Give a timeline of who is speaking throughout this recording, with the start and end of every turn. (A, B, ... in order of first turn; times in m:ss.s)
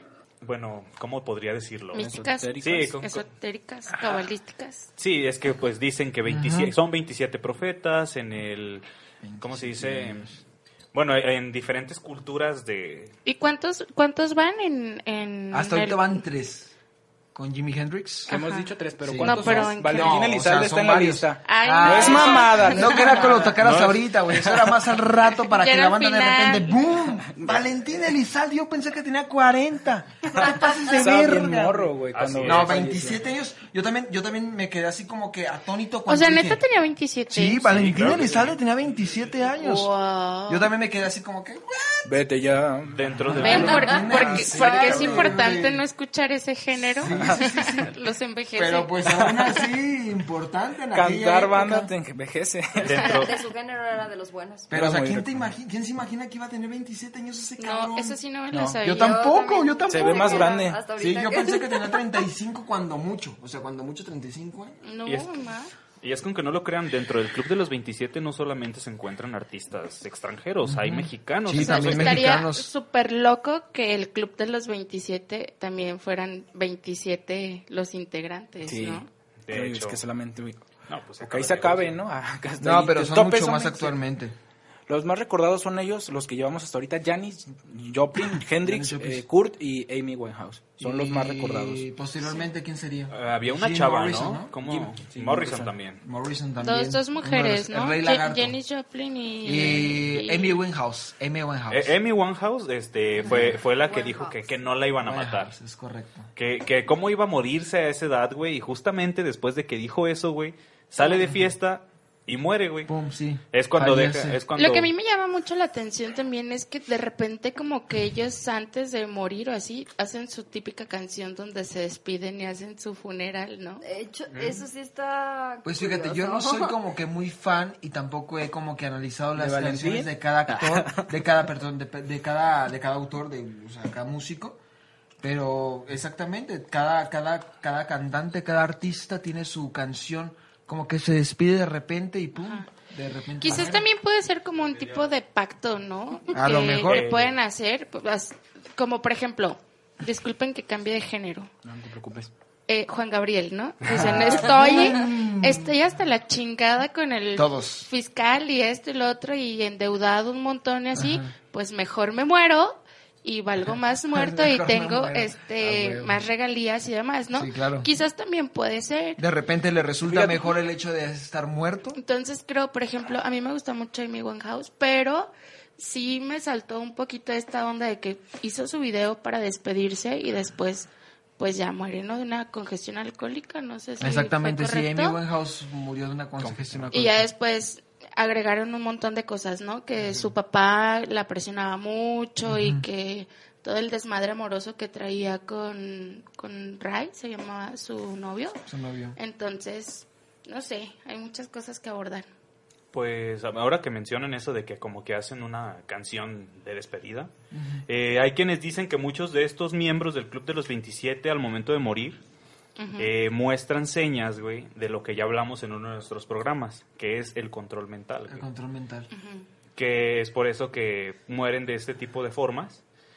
0:00.4-0:02.1 A
0:01.9-0:04.9 B
0:02.0-0:03.0 C
0:02.6-0:03.2 A
0:05.0-0:08.8 A
0:06.2-0:06.7 D
0:09.2-0:10.3 D
0:09.4-0:10.3 A
0:10.9-0:13.2 A
0:13.2-0:16.1 B
0:15.5-0:16.7 D
0:17.3-0:18.3 D
0:18.3-0:24.8 C
0:18.3-0:20.2 B
0:19.0-0:31.9 D
0:21.4-0:23.2 B
0:23.3-0:24.0 A
0:25.5-0:26.8 B
0:27.3-0:28.0 C
0:30.4-0:33.3 C
0:32.1-0:32.8 A
0:32.4-0:36.6 D
0:36.1-0:37.7 B
0:37.3-0:39.9 D
0:37.6-0:38.6 A
0:39.6-0:40.7 B
0:40.5-0:42.0 D
0:42.0-0:43.7 C
0:42.9-0:44.6 A
0:43.3-0:45.8 D
0:43.4-0:48.9 B
0:43.6-0:45.3 E
0:44.2-0:45.0 C
0:47.0-0:51.9 D
0:47.0-0:47.5 C
0:49.1-0:49.3 C
0:50.9-0:53.0 C
0:52.8-0:53.4 A
0:52.9-0:54.7 E
0:54.7-0:58.2 D
0:54.7-0:55.5 C
0:57.6-0:59.4 B
0:58.5-0:58.8 C
0:58.8-1:04.8 D
0:58.8-1:02.2 E
0:59.9-1:00.8 C
1:04.8-1:05.7 B
1:05.1-1:05.4 A
1:06.0-1:12.2 A
1:10.6-1:12.7 D
1:11.6-1:19.1 B
1:18.6-1:20.6 C
1:19.5-1:20.0 A
1:20.9-1:22.0 A
1:21.2-1:24.0 C
1:22.6-1:24.4 D
1:24.9-1:31.9 C
1:28.6-1:29.2 D
1:30.8-1:34.5 D
1:33.1-1:36.0 A
1:34.6-1:35.7 C
1:36.0-1:38.6 D
1:36.6-1:40.6 B
1:39.4-1:42.0 D
1:41.7-1:45.5 A
1:43.2-1:44.4 E
1:45.0-1:46.3 D
1:46.4-1:52.9 A
1:51.1-1:51.4 D
1:52.9-1:54.4 D
1:53.5-1:54.9 A
1:54.6-2:03.8 B
2:03.8-2:06.8 E
2:05.6-2:14.6 D
2:09.4-2:11.1 C
2:15.2-2:23.9 D
2:22.4-2:22.7 B
2:23.4-2:31.5 B
2:26.3-2:27.1 D
2:26.8-2:27.4 A
2:31.6-2:32.3 C
2:32.7-2:49.2 B
2:33.9-2:35.7 D
2:37.4-2:37.9 D
2:40.9-2:41.3 D
2:44.1-2:46.1 D
2:47.4-2:47.9 D
2:49.2-2:52.0 D
2:50.0-2:50.5 C
2:52.0-3:00.9 B
3:01.4-3:05.2 B
3:04.0-3:07.2 D
3:06.4-3:06.8 A
3:06.9-3:18.6 B
3:12.5-3:12.8 D
3:18.7-3:19.2 D
3:19.2-3:22.3 B
3:22.9-3:27.3 A
3:27.5-3:27.8 D
3:27.9-3:32.2 A
3:32.8-3:33.1 B
3:33.0-3:38.5 A
3:38.3-3:39.1 D
3:39.1-3:39.4 B
3:39.8-3:42.8 A